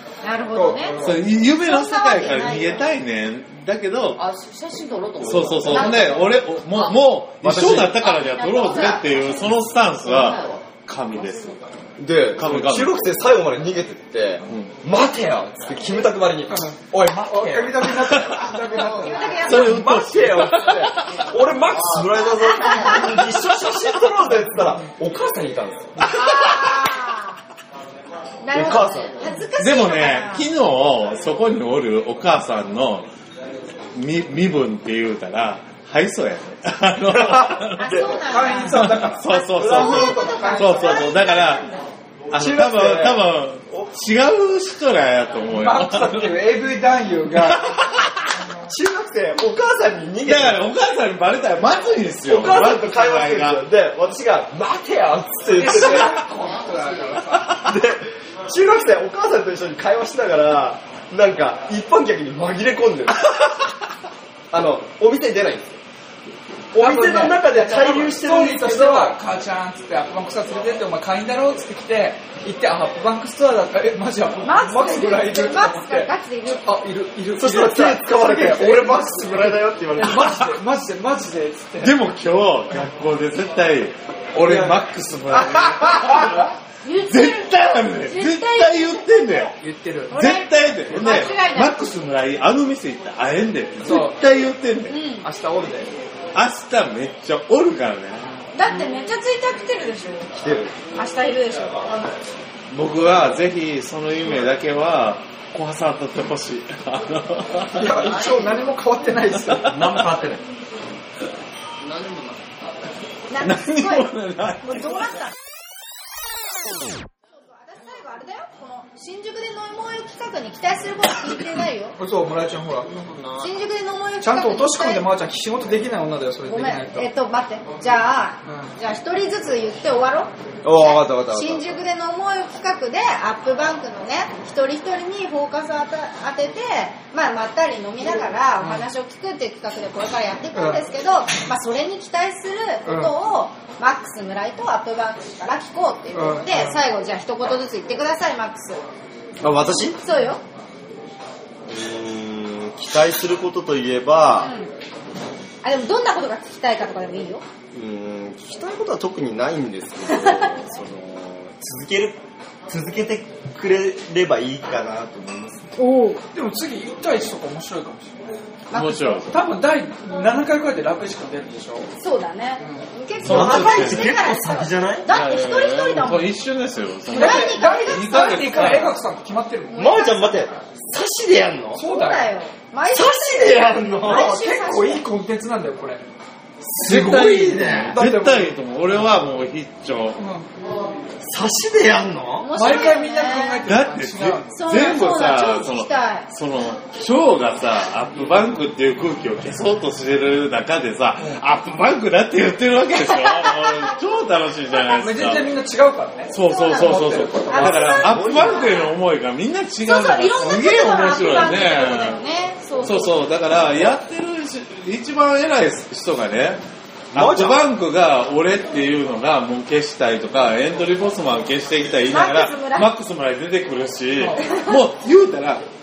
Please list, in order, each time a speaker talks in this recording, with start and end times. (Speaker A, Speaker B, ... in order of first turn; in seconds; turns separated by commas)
Speaker A: 0.2-2.9, Speaker B: 0.5-1.2, Speaker C: 1.0-4.2, Speaker D: 4.2-6.8, Speaker C: 5.2-11.6, Speaker E: 5.2-5.5, Speaker A: 5.7-6.2, Speaker E: 7.4-8.1, Speaker A: 8.0-9.5, Speaker D: 10.0-10.6, Speaker D: 11.2-11.5, Speaker E: 12.0-16.8, Speaker C: 12.3-13.1, Speaker C: 14.5-14.7, Speaker B: 16.5-19.5, Speaker E: 17.4-17.9, Speaker C: 17.9-18.7, Speaker A: 18.9-19.7, Speaker C: 19.3-21.4, Speaker E: 19.4-26.2, Speaker D: 21.7-22.8, Speaker A: 22.4-23.4, Speaker A: 26.0-27.4, Speaker A: 28.4-30.5, Speaker E: 28.5-29.4, Speaker C: 29.6-33.1, Speaker C: 33.9-41.6, Speaker E: 37.1-38.2, Speaker A: 37.8-41.9, Speaker B: 38.3-41.1, Speaker E: 42.3-43.9, Speaker C: 42.3-46.5, Speaker B: 45.5-48.7, Speaker C: 47.4-48.2, Speaker E: 48.7-50.6, Speaker C: 50.2-53.6, Speaker E: 52.2-56.2, Speaker B: 55.5-57.7, Speaker D: 56.4-57.2, Speaker E: 57.5-63.4, Speaker E: 64.5-65.8, Speaker E: 66.7-69.2, Speaker B: 66.8-82.0, Speaker A: 74.4-76.7, Speaker E: 77.4-80.5, Speaker C: 81.8-89.5, Speaker B: 84.4-86.5, Speaker A: 86.8-89.5, Speaker B: 89.6-90.2, Speaker A: 90.1-91.8, Speaker C: 90.1-95.0, Speaker B: 93.8-94.2, Speaker A: 94.9-95.3, Speaker B: 95.2-95.9, Speaker C: 96.3-98.4, Speaker A: 98.5-100.3, Speaker E: 100.3-100.8, Speaker A: 100.9-101.9, Speaker C: 102.7-108.0, Speaker B: 107.7-109.8, Speaker C: 109.5-110.1, Speaker E: 109.7-110.4, Speaker D: 111.8-112.4, Speaker A: 113.3-115.3, Speaker C: 113.4-115.2, Speaker A: 117.3-122.0, Speaker B: 122.0-122.9, Speaker D: 122.9-123.5, Speaker A: 123.4-125.1, Speaker B: 124.2-127.1, Speaker A: 126.5-148.9, Speaker B: 128.4-128.8, Speaker E: 130.6-131.7, Speaker B: 138.6-138.9, Speaker B: 140.5-140.8, Speaker B: 142.8-143.1, Speaker B: 146.1-146.8, Speaker E: 149.4-150.0, Speaker A: 150.0-150.4, Speaker E: 151.7-154.5, Speaker A: 154.3-154.7, Speaker A: 155.6-157.4, Speaker E: 157.7-165.7, Speaker A: 165.8-166.2, Speaker B: 166.3-168.2, Speaker A: 168.7-169.2, Speaker C: 168.7-169.4, Speaker B: 169.3-171.9, Speaker A: 172.0-176.3, Speaker B: 172.6-172.9, Speaker C: 173.2-174.1, Speaker E: 173.2-175.1, Speaker C: 175.1-178.9, Speaker A: 177.1-178.9, Speaker B: 177.1-180.0, Speaker A: 179.7-180.5, Speaker E: 179.8-181.8, Speaker B: 181.8-182.3, Speaker A: 181.8-185.0, Speaker E: 182.8-184.5, Speaker B: 184.1-186.0, Speaker E: 186.6-188.0, Speaker C: 186.8-190.2, Speaker B: 186.9-188.6, Speaker B: 190.2-190.5, Speaker E: 191.2-192.6, Speaker A: 192.4-193.6, Speaker B: 192.5-194.6, Speaker C: 193.7-205.5, Speaker A: 194.5-196.3, Speaker A: 202.9-203.9, Speaker B: 204.9-207.9, Speaker C: 206.3-212.2, Speaker A: 206.4-208.9, Speaker E: 207.6-208.9, Speaker A: 209.8-213.2, Speaker C: 212.8-225.6, Speaker E: 217.1-217.7, Speaker A: 222.1-222.9, Speaker B: 224.2-224.6, Speaker A: 224.4-224.8